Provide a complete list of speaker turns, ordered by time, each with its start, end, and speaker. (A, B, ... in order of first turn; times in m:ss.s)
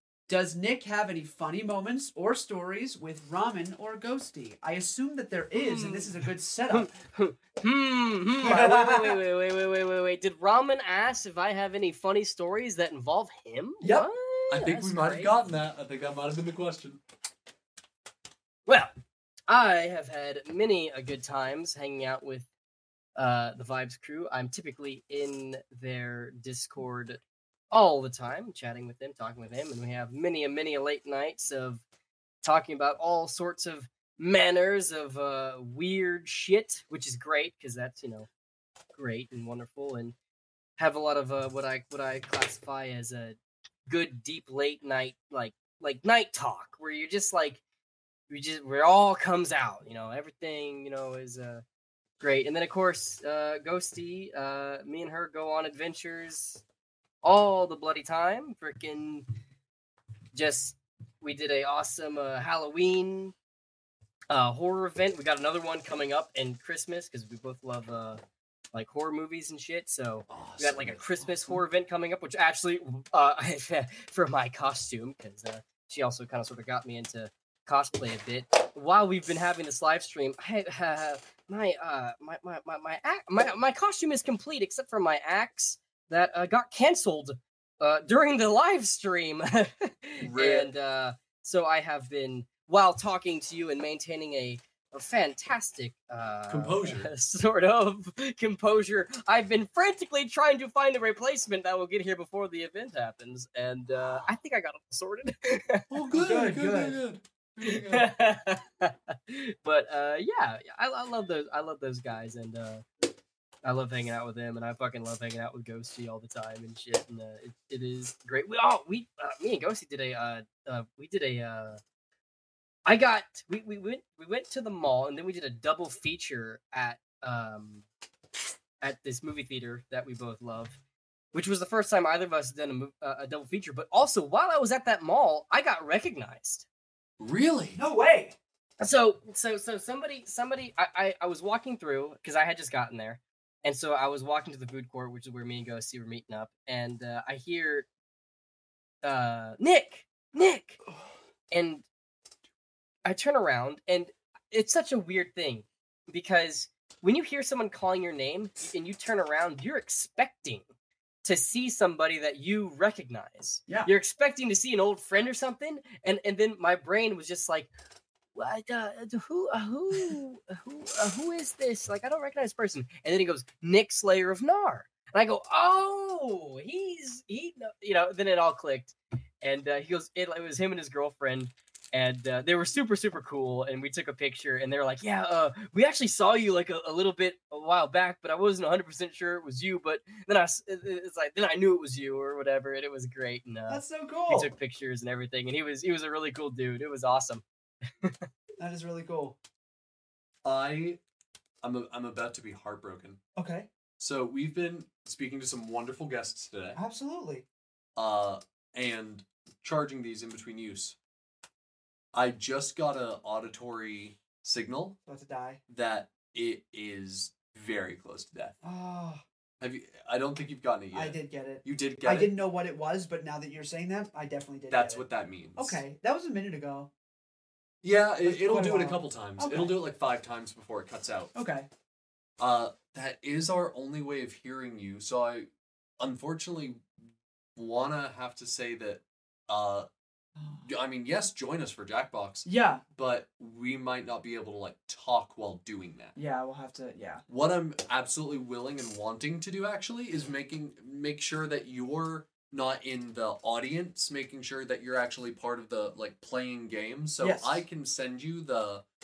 0:00.3-0:06.9 A
0:05.5-0:15.3 B
0:08.4-0:09.2 A
0:13.8-0:14.1 A
0:14.5-0:17.0 C
0:18.7-0:18.9 B
0:19.5-0:22.5 B
0:23.2-0:27.2 B
0:27.7-0:31.8 B
0:32.4-0:38.3 B
0:38.9-0:40.1 B
0:40.8-0:47.6 B
0:48.3-0:51.6 B
0:52.2-0:56.6 B
0:57.2-0:59.2 B
1:00.3-1:03.3 B
1:04.3-1:08.2 B
1:08.7-1:46.0 B
1:10.3-1:11.6 C
1:30.2-1:30.7 C
1:36.5-1:37.1 C
1:45.9-1:48.1 C
1:46.1-1:47.0 A
1:47.6-1:52.8 B
1:53.6-2:01.8 B
2:02.8-2:07.8 B
2:08.8-2:10.8 B
2:11.3-2:16.6 B
2:17.2-2:17.8 C
2:17.7-2:18.4 A
2:18.8-2:27.9 B
2:29.0-2:30.8 B
2:31.5-2:31.8 B
2:33.0-2:40.6 B
2:41.2-2:47.7 B
2:48.3-3:18.3 B
3:13.7-3:14.5 A
3:18.6-3:19.4 A
3:20.4-3:21.0 C
3:21.6-3:23.2 C
3:23.3-3:23.7 A
3:24.0-3:26.8 C
3:26.7-3:27.4 A
3:28.0-3:31.0 C
3:32.1-3:35.0 C
3:35.0-3:35.6 A
3:35.7-3:38.5 C
3:38.6-3:39.2 A
3:39.6-3:42.3 C
3:40.9-3:45.0 A
3:44.7-3:45.8 C
3:45.6-3:46.9 A
3:47.8-3:51.3 C
3:48.2-3:49.8 A
3:51.3-3:51.7 A
3:52.4-3:56.8 C
3:57.6-3:59.9 C
4:00.4-4:00.6 A
4:00.6-4:06.1 C
4:02.4-4:02.8 A
4:06.1-4:07.2 A
4:07.3-4:18.8 C
4:17.2-4:17.6 A